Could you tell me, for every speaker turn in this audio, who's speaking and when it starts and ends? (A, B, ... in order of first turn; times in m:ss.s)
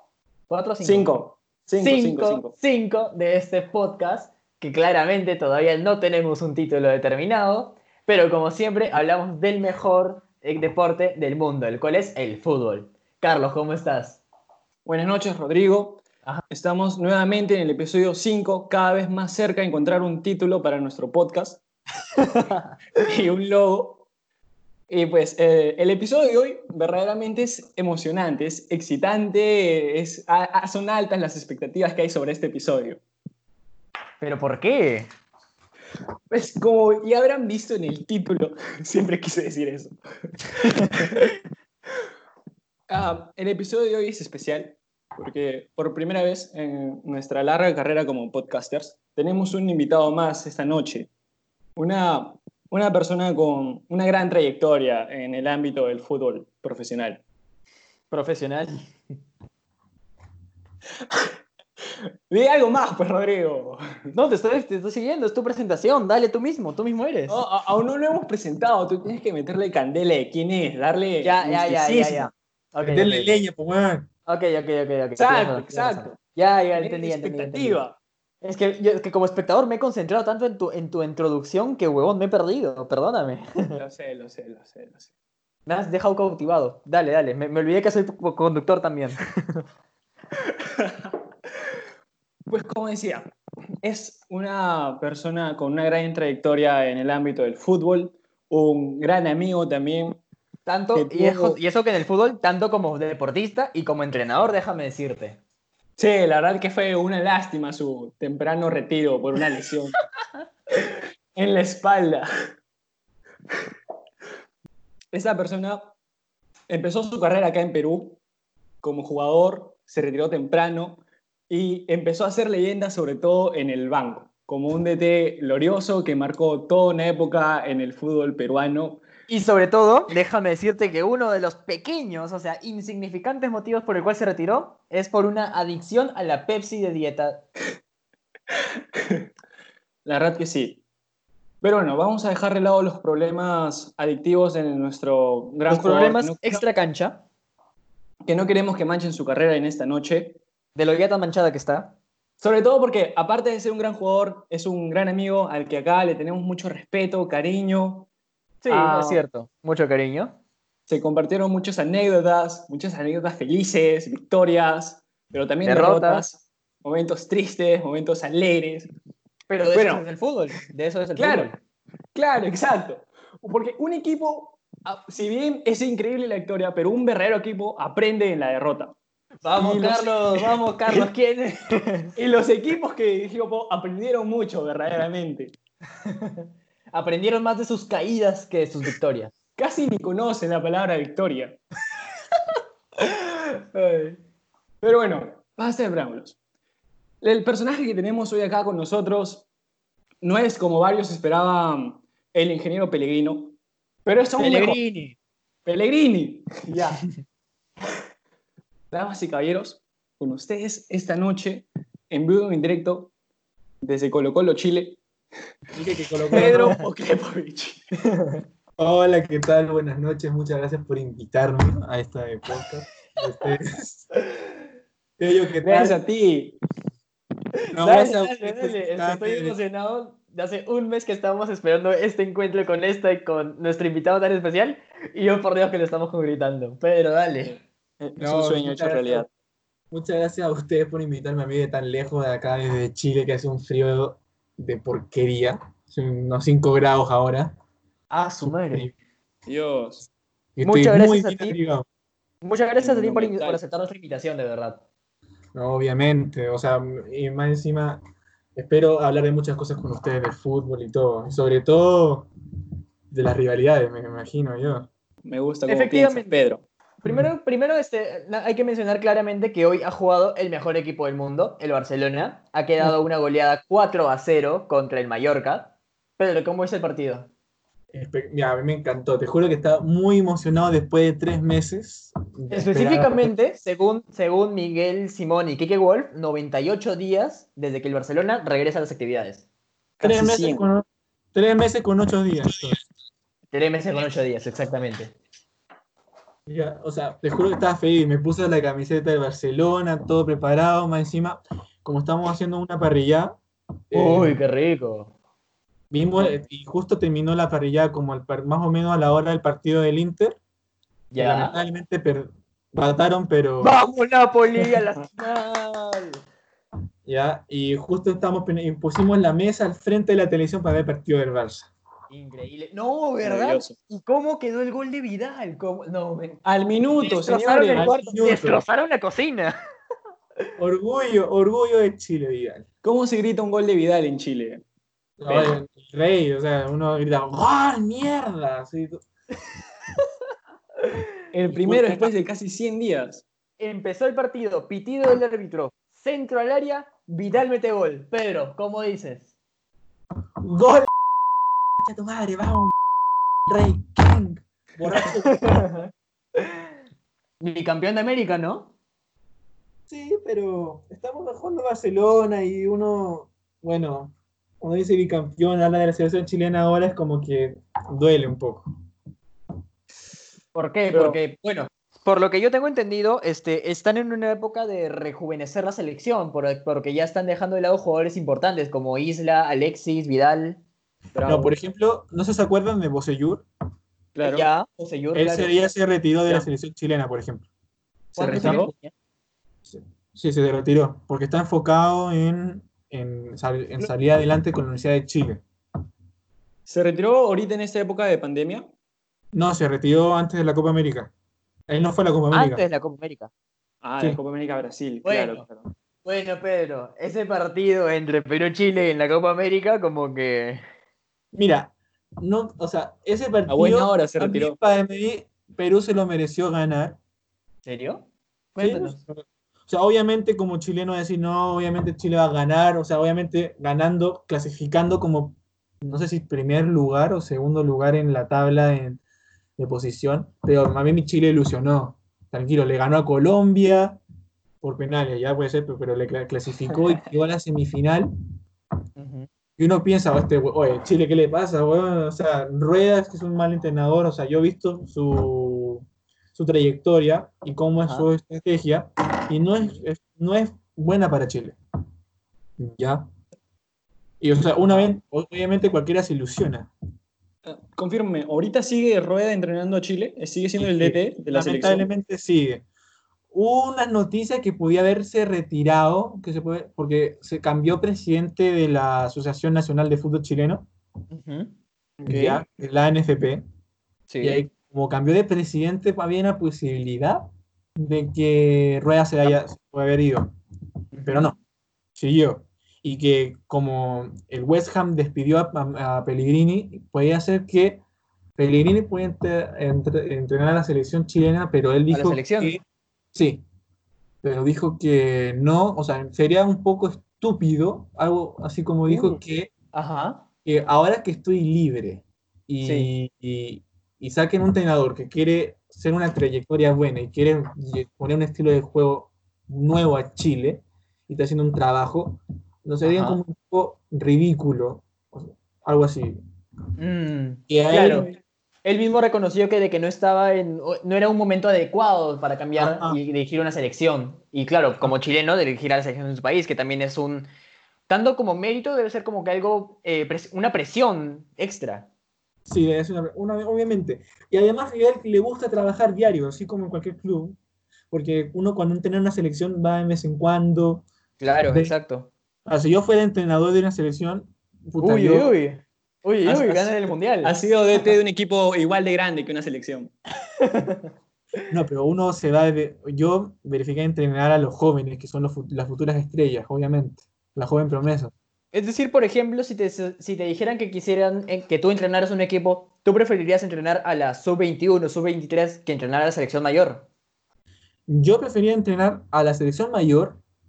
0:00.5-0:01.1 A
0:00.8-0:02.5 B
0:01.8-0:14.2 A
0:14.8-0:21.6 B
0:22.2-0:22.6 A
0:22.9-0:24.0 B
0:24.9-0:33.0 B
0:34.2-0:35.1 A
0:36.3-0:39.9 B
0:40.5-0:41.2 B
0:40.6-0:41.3 A
0:42.9-0:51.1 B
0:51.8-0:57.2 B
0:58.1-0:58.7 A
1:02.3-1:03.8 B
1:04.1-1:07.4 A
1:07.3-1:12.3 B
1:11.2-1:13.4 A
1:12.8-1:14.1 C
1:14.3-1:17.8 A
1:15.2-1:16.2 B
1:16.8-1:18.0 B
1:18.4-1:23.8 A
1:23.8-1:25.1 B
1:25.6-1:29.6 A
1:30.6-1:31.1 B
1:32.5-1:33.3 B
1:33.8-1:40.2 B
1:40.6-1:45.4 A
1:40.9-1:41.6 B
1:46.0-1:50.0 B
1:50.7-1:52.3 B
1:55.1-1:55.9 B
1:56.7-1:58.2 B
1:58.8-2:09.0 B
2:09.3-2:17.4 A
2:19.0-2:19.2 B
2:20.0-2:20.8 B
2:21.6-2:26.6 B
2:25.7-2:27.2 A
2:28.2-2:30.4 B
2:30.7-2:32.0 A
2:32.4-2:38.1 B
2:38.6-2:40.4 A
2:38.7-2:39.2 B
2:40.9-2:48.9 B
2:45.6-2:46.2 A
2:49.5-2:51.6 A
2:49.7-2:50.0 B
2:51.2-2:51.5 B
2:52.1-2:59.0 B
2:59.4-3:02.1 A
2:59.6-3:01.1 B
3:02.2-3:05.5 B
3:06.0-3:09.3 A
3:09.6-3:11.6 B
3:13.0-3:14.2 A
3:14.8-3:16.4 B
3:17.2-3:19.4 B
3:20.2-3:24.8 B
3:24.4-3:25.2 A
3:25.6-3:27.0 B
3:28.9-3:33.1 B
3:33.8-3:35.0 B
3:35.7-3:36.8 C
3:36.3-3:37.8 B
3:36.4-3:36.6 A
3:38.1-3:38.4 A
3:38.8-3:44.0 C
3:45.2-3:46.0 C
3:45.6-3:46.6 B
3:47.7-3:49.6 C
3:47.8-3:57.6 A
3:57.5-3:59.3 B
3:58.2-3:59.2 C
3:59.9-4:07.6 C
4:08.1-4:08.9 A
4:08.4-4:08.9 C
4:09.5-4:10.1 B
4:10.6-4:11.9 C
4:10.6-4:11.6 A
4:12.4-4:14.8 A
4:12.8-4:13.6 B
4:15.5-4:18.0 C
4:18.6-4:22.3 C
4:23.1-4:24.9 C
4:25.2-4:26.6 B
4:25.7-4:26.4 A
4:27.0-4:37.3 A
4:37.9-4:43.3 C
4:42.5-4:49.4 A
4:50.0-4:50.7 B
4:50.0-4:52.8 C
4:53.5-4:55.1 A
4:56.5-5:03.4 C
5:03.9-5:04.4 C
5:03.9-5:05.1 A
5:05.9-5:10.4 C
5:11.1-5:11.6 A
5:11.2-5:13.7 C
5:13.6-5:16.2 A
5:17.0-5:21.7 C
5:22.1-5:26.4 A
5:23.2-5:23.8 B
5:26.4-5:28.0 B
5:26.9-5:29.5 A
5:27.7-5:28.6 C
5:30.6-5:32.6 C
5:32.8-5:34.6 B
5:35.2-5:39.0 C
5:35.3-5:35.6 B
5:40.8-5:42.1 A
5:41.3-5:43.2 B
5:43.6-5:49.3 A
5:50.4-5:50.9 C
5:51.8-5:52.7 C
5:53.5-5:55.7 C
5:54.9-5:55.9 A
5:57.4-5:58.7 A
5:59.9-6:08.7 C
6:10.5-6:20.6 A
6:10.9-6:11.2 B
6:21.1-6:21.6 B
6:21.2-6:23.4 C
6:24.1-6:24.5 B
6:24.2-6:25.7 A
6:25.1-6:27.5 C
6:28.1-6:28.9 A
6:28.2-6:28.7 B
6:28.3-6:28.7 C
6:29.7-6:35.4 C
6:36.7-6:38.7 B
6:39.3-6:41.1 C
6:41.7-6:42.6 C
6:42.3-6:43.3 A
6:43.8-6:45.6 B
6:45.0-6:45.4 A
6:46.0-6:50.6 A
6:51.3-6:57.0 C
6:53.5-6:54.6 B
6:57.6-6:59.0 A
6:58.6-7:09.0 C
7:09.6-7:14.0 C
7:14.6-7:18.1 C
7:19.0-7:19.3 A
7:19.6-7:31.6 C
7:32.6-7:33.1 C
7:34.2-7:36.7 C
7:37.4-7:41.9 B
7:40.6-7:42.6 C
7:43.3-7:50.7 C
7:51.1-7:51.5 A
7:52.0-7:52.4 B
7:52.1-7:53.4 C
7:54.1-7:54.4 A
7:54.2-8:00.4 C
8:00.9-8:01.3 A
8:01.0-8:01.4 C
8:02.0-8:07.8 C
8:08.4-8:12.6 C
8:11.9-8:12.6 A
8:13.1-8:13.4 C
8:14.2-8:19.5 C
8:19.7-8:20.2 A
8:20.4-8:36.2 C
8:22.6-8:22.9 A
8:32.8-8:33.2 A
8:36.8-8:38.1 A
8:37.5-8:38.1 C
8:38.6-8:47.3 A
8:42.6-8:43.0 C
8:47.9-8:51.9 A
8:52.5-8:57.4 C
8:57.9-9:00.8 C
9:01.2-9:02.1 A
9:01.5-9:01.7 C
9:02.4-9:05.3 C
9:04.8-9:07.3 A
9:06.2-9:09.9 B
9:10.4-9:10.9 A
9:11.5-9:18.1 C
9:18.5-9:26.9 A
9:27.9-9:30.2 C